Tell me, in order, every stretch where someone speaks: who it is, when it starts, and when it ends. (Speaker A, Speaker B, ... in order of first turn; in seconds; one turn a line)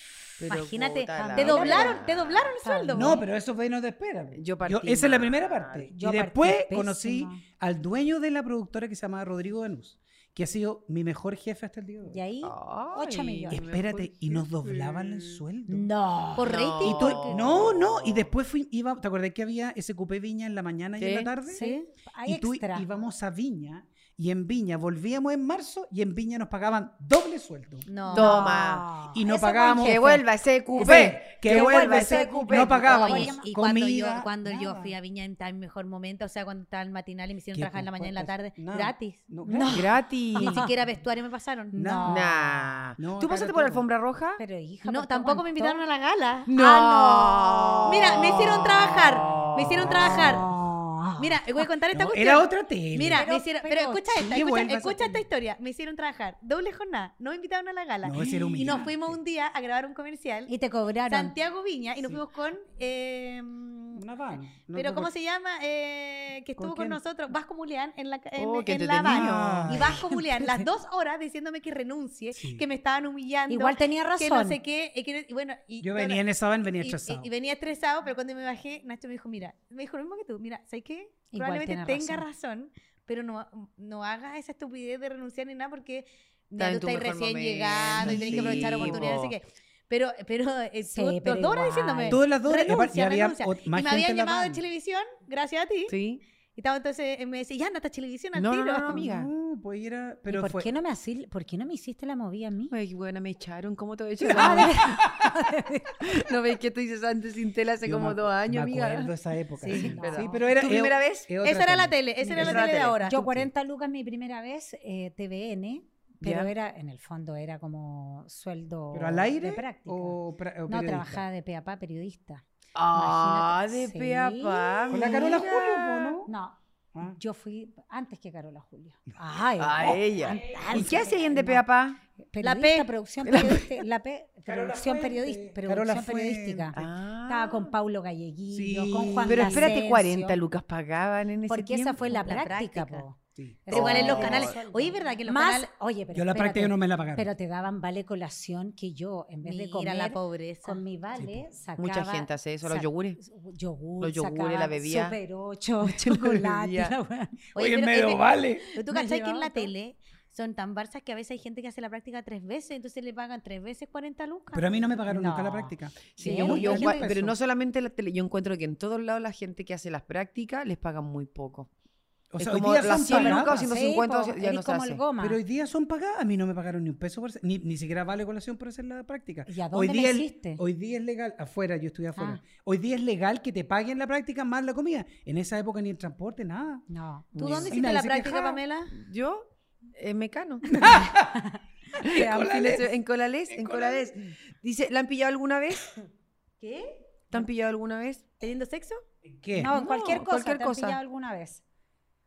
Speaker A: 0.4-2.5
Speaker B: 0.5-3.2
Speaker C: 1.1-2.1
Speaker C: 2.6-3.2
Speaker D: 2.9-12.2
Speaker A: 4.3-5.9
Speaker C: 5.9-7.4
Speaker C: 12.1-13.7
Speaker A: 12.4-15.4
Speaker D: 13.5-15.9
Speaker C: 15.7-16.6
Speaker B: 16.3-17.4
Speaker A: 16.4-18.3
Speaker D: 16.8-21.6
Speaker A: 21.0-21.3
Speaker C: 21.5-22.9
Speaker B: 21.5-21.9
Speaker D: 22.3-27.9
Speaker B: 27.9-28.6
Speaker C: 28.0-30.2
Speaker A: 28.1-28.9
Speaker D: 29.1-30.2
Speaker A: 29.6-33.2
Speaker C: 30.8-33.5
Speaker D: 30.8-34.9
Speaker B: 32.9-39.2
Speaker D: 37.5-39.9
Speaker C: 39.5-40.7
Speaker A: 39.7-40.7
Speaker B: 40.4-41.8
Speaker C: 41.7-42.3
Speaker D: 41.7-42.4
Speaker A: 42.0-44.4
Speaker D: 43.0-43.9
Speaker C: 44.4-45.8
Speaker B: 44.9-46.5
Speaker A: 46.5-50.5
Speaker C: 46.6-47.8
Speaker B: 47.8-50.5
Speaker C: 49.8-51.6
Speaker B: 51.2-60.5
Speaker D: 51.9-53.2
Speaker C: 53.1-54.3
Speaker D: 54.1-55.2
Speaker D: 58.0-59.2
Speaker C: 60.5-61.4
Speaker B: 61.1-64.0
Speaker D: 64.0-65.1
Speaker B: 64.7-76.2
Speaker D: 66.6-67.0
Speaker A: 68.4-69.8
Speaker D: 69.1-70.0
Speaker C: 70.0-70.7
Speaker D: 72.3-72.6
Speaker C: 73.5-74.6
Speaker D: 75.8-77.3
Speaker B: 76.8-96.0
Speaker C: 81.3-82.3
Speaker A: 86.6-89.3
Speaker D: 88.0-89.2
Speaker C: 90.9-92.2
Speaker D: 92.1-94.6
Speaker A: 95.9-96.2
Speaker B: 96.6-99.0
Speaker A: 98.3-99.3
Speaker D: 98.9-100.7
Speaker C: 100.3-102.7
Speaker A: 102.7-105.0
Speaker D: 104.2-105.3
Speaker C: 104.3-106.2
Speaker A: 106.0-109.1
Speaker D: 107.8-112.6
Speaker B: 109.7-109.9
Speaker C: 109.7-110.4
Speaker A: 109.7-111.3
Speaker B: 111.4-113.2
Speaker C: 112.2-125.5
Speaker A: 112.3-113.0
Speaker D: 113.2-113.5
Speaker A: 116.2-116.5
Speaker D: 118.9-121.3
Speaker A: 122.8-126.2
Speaker D: 124.9-126.3
Speaker C: 126.2-131.6
Speaker D: 126.9-127.2
Speaker A: 129.6-132.0
Speaker D: 129.8-131.0
Speaker C: 132.3-140.4
Speaker B: 132.4-132.9
Speaker A: 133.2-133.8
Speaker D: 134.5-136.8
Speaker A: 136.7-137.7
Speaker D: 138.5-139.7
Speaker A: 139.2-142.2
Speaker C: 141.5-157.4
Speaker B: 142.0-143.1
Speaker D: 143.4-144.5
Speaker B: 143.7-145.7
Speaker A: 143.7-144.5
Speaker D: 146.1-147.3
Speaker B: 149.4-150.8
Speaker D: 151.2-151.5
Speaker A: 151.8-153.2
Speaker A: 154.0-155.2
Speaker A: 155.8-156.9
Speaker D: 157.6-158.7
Speaker B: 157.6-164.7
Speaker C: 158.8-159.7
Speaker D: 164.5-167.4
Speaker C: 165.1-167.1
Speaker A: 166.2-171.7
Speaker D: 172.3-173.8
Speaker A: 172.4-175.0
Speaker C: 173.0-175.4
Speaker D: 175.2-186.9
Speaker C: 179.5-180.6
Speaker C: 182.2-182.4
Speaker C: 186.9-187.8
Speaker A: 187.3-187.8
Speaker B: 187.4-188.9
Speaker D: 187.4-188.6
Speaker A: 188.9-191.0
Speaker D: 190.7-191.4
Speaker C: 190.8-192.7
Speaker D: 192.0-192.9
Speaker A: 192.0-195.9
Speaker D: 193.5-194.1
Speaker B: 196.6-196.9
Speaker A: 197.3-198.2
Speaker B: 198.4-199.0
Speaker D: 199.3-199.8
Speaker C: 199.6-201.6
Speaker A: 199.7-201.0